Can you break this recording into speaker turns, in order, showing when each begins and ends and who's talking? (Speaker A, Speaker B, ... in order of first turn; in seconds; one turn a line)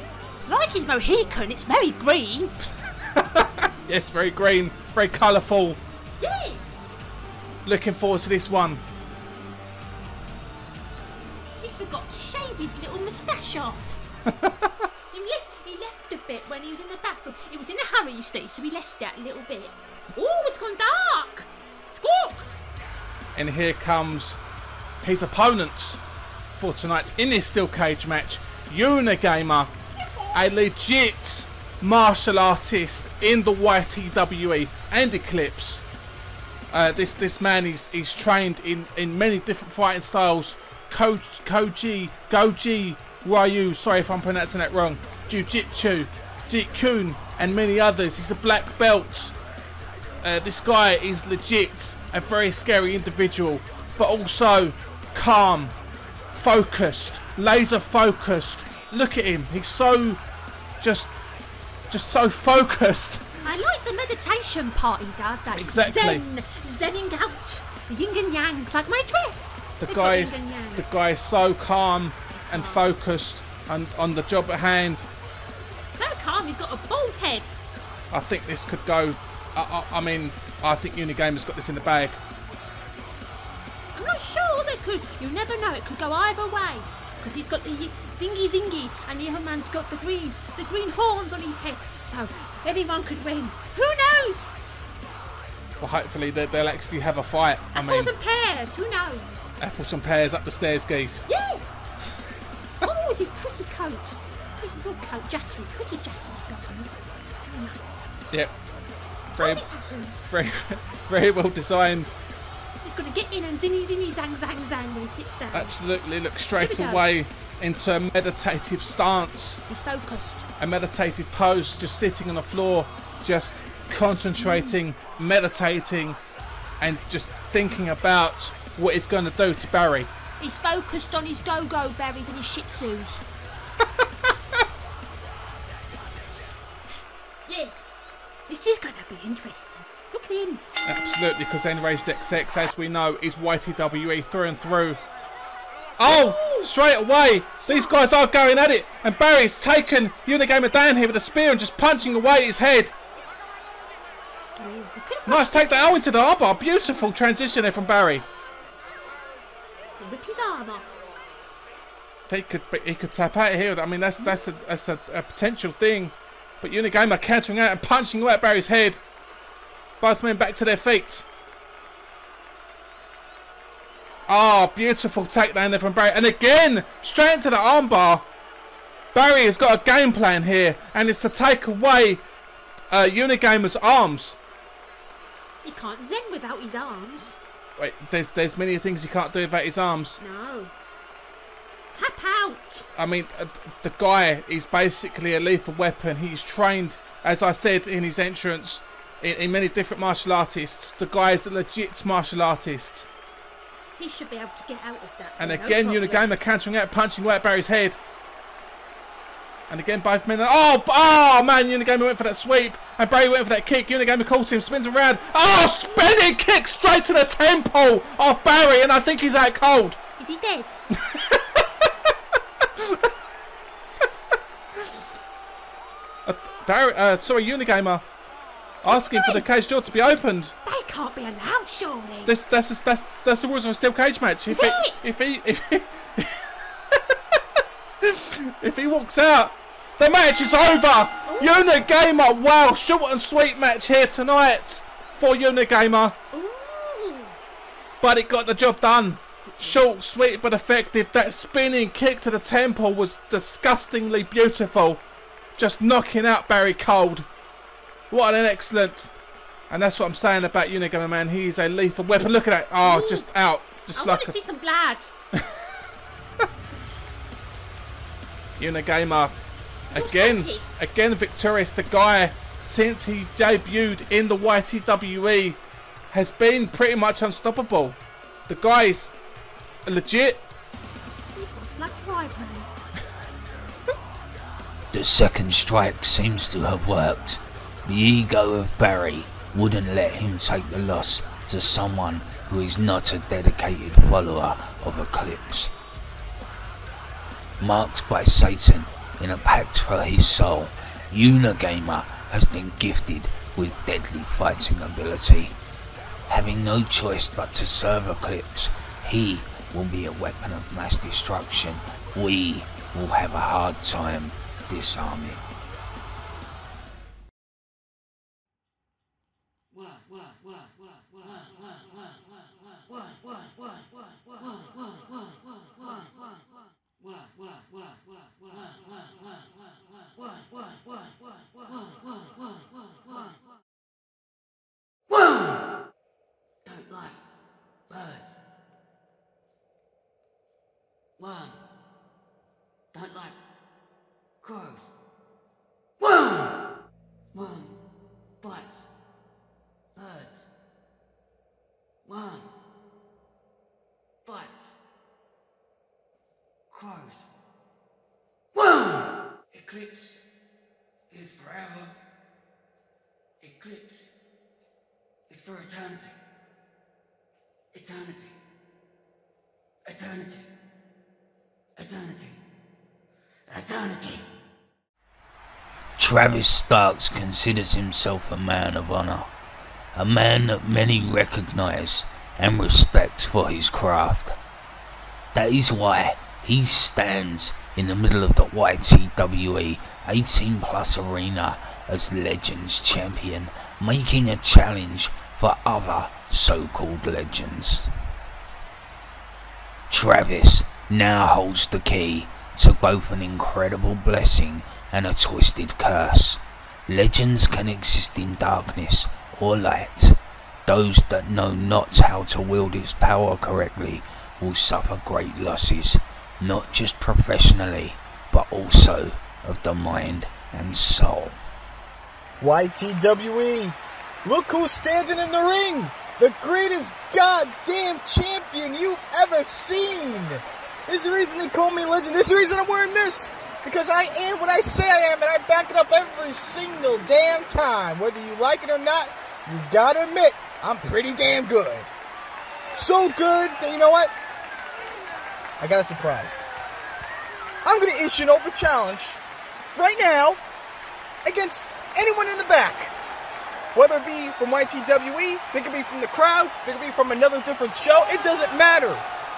Speaker A: 0.5-2.5
Speaker B: 3.2-5.8
Speaker A: 6.2-6.9
Speaker B: 7.6-8.8
Speaker A: 11.6-14.0
Speaker B: 14.3-14.7
Speaker A: 15.1-22.5
Speaker B: 23.3-24.4
Speaker B: 25.0-26.0
Speaker B: 26.5-29.7
Speaker A: 29.9-30.5
Speaker B: 30.3-35.8
Speaker B: 36.7-49.3
Speaker B: 50.2-55.7
Speaker B: 56.3-60.2
Speaker B: 60.8-61.1
Speaker B: 61.9-63.3
Speaker A: 63.4-70.9
Speaker B: 65.5-66.2
Speaker B: 69.8-75.1
Speaker A: 72.3-72.8
Speaker A: 75.9-77.5
Speaker B: 78.1-82.2
Speaker A: 83.9-94.5
Speaker B: 95.8-98.1
Speaker A: 97.7-99.4
Speaker B: 99.6-101.2
Speaker A: 101.3-101.6
Speaker A: 102.8-108.0
Speaker B: 109.3-109.7
Speaker A: 109.3-110.2
Speaker B: 110.2-112.2
Speaker A: 112.8-115.8
Speaker B: 115.5-119.6
Speaker A: 116.5-117.1
Speaker A: 119.7-120.5
Speaker B: 120.6-126.2
Speaker A: 124.4-124.7
Speaker B: 126.8-130.1
Speaker A: 130.4-133.2
Speaker A: 137.5-137.7
Speaker A: 138.5-140.6
Speaker B: 140.8-145.0
Speaker B: 146.0-152.9
Speaker A: 146.0-146.7
Speaker A: 147.7-148.0
Speaker A: 154.6-156.0
Speaker B: 155.2-158.2
Speaker A: 160.0-160.9
Speaker B: 162.3-169.0
Speaker B: 170.0-171.2
Speaker B: 174.3-178.2
Speaker B: 179.1-182.2
Speaker B: 182.9-184.4
Speaker A: 185.6-187.3
Speaker B: 187.8-190.2
Speaker A: 190.2-190.7
Speaker A: 191.9-192.9
Speaker B: 192.9-203.1
Speaker A: 204.0-206.3
Speaker B: 205.4-208.0
Speaker B: 209.7-220.0
Speaker A: 220.2-220.8
Speaker B: 221.1-221.9
Speaker B: 222.8-223.1
Speaker B: 226.2-228.1
Speaker B: 228.8-230.5
Speaker A: 228.9-229.4
Speaker A: 230.6-232.3
Speaker B: 232.2-236.3
Speaker A: 234.5-235.0
Speaker B: 236.9-237.4
Speaker B: 238.0-246.2
Speaker A: 241.2-241.6
Speaker A: 246.3-247.3
Speaker B: 248.0-255.0
Speaker A: 249.5-249.8
Speaker B: 255.6-257.3
Speaker B: 258.1-259.1
Speaker B: 259.7-264.4
Speaker A: 262.8-263.3
Speaker A: 263.9-265.1
Speaker B: 268.6-269.3
Speaker B: 269.9-275.6
Speaker A: 269.9-270.7
Speaker B: 276.1-279.2
Speaker B: 279.9-280.4
Speaker A: 281.3-282.9
Speaker C: 284.9-295.7
Speaker C: 297.6-305.6
Speaker C: 306.3-315.4
Speaker D: 319.7-333.4
Speaker D: 335.1-335.7
Speaker D: 336.6-337.2
Speaker D: 337.9-338.3
Speaker D: 341.2-341.6
Speaker D: 342.9-343.4
Speaker D: 344.4-344.9
Speaker D: 346.0-346.6
Speaker D: 347.3-347.7
Speaker D: 348.4-348.9
Speaker D: 349.9-350.4
Speaker D: 352.0-352.5
Speaker D: 354.2-354.7
Speaker D: 356.7-357.2
Speaker D: 358.5-360.2
Speaker D: 361.1-361.9
Speaker D: 363.4-364.1
Speaker D: 365.3-366.1
Speaker D: 367.7-368.4
Speaker D: 369.9-370.4
Speaker D: 371.8-372.4
Speaker D: 373.5-374.2
Speaker C: 376.0-379.3
Speaker C: 379.9-384.4
Speaker C: 385.3-397.9
Speaker C: 399.9-421.4
Speaker E: 422.4-441.9
Speaker E: 442.7-444.1
Speaker E: 445.6-446.4
Speaker E: 447.6-449.2
Speaker E: 449.7-450.4
Speaker E: 451.2-452.9
Speaker E: 453.7-459.0